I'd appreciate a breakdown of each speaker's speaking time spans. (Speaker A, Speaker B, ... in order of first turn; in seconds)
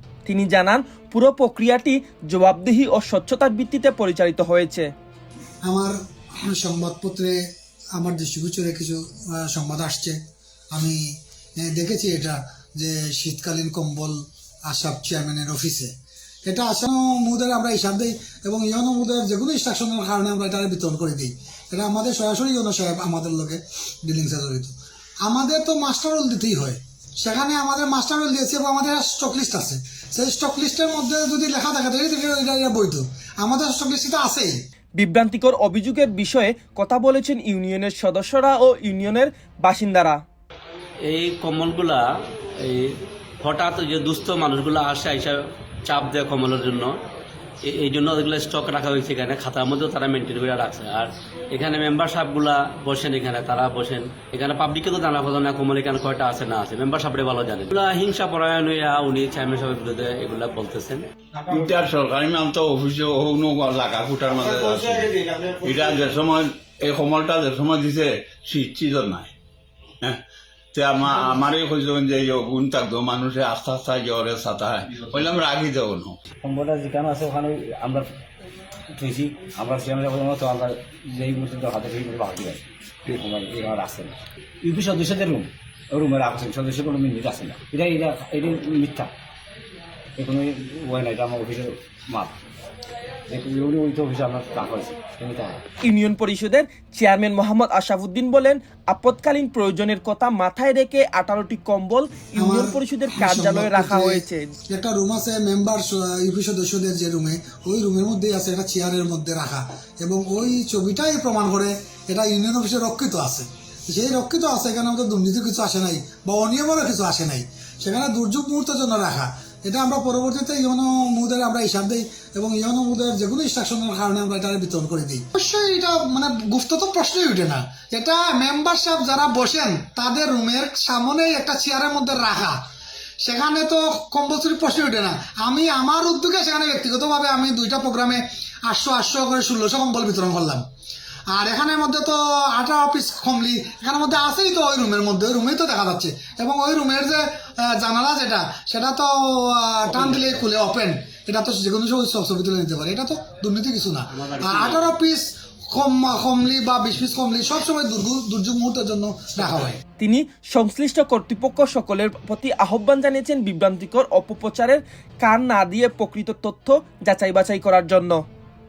Speaker A: 0.3-4.9, 35.0-40.2, 95.8-104.5, 160.0-168.2
Speaker B: 5.6-7.4, 7.9-10.2, 10.7-15.9, 16.5-34.5, 102.4-132.6, 133.2-140.6, 141.3-159.8
Speaker C: 41.0-42.1, 42.6-47.0, 47.6-61.1, 150.0-150.4, 154.1-154.9
Speaker D: 61.5-69.3, 70.7-76.2
Speaker E: 76.4-78.1, 78.9-89.1, 90.2-92.4, 93.3-95.6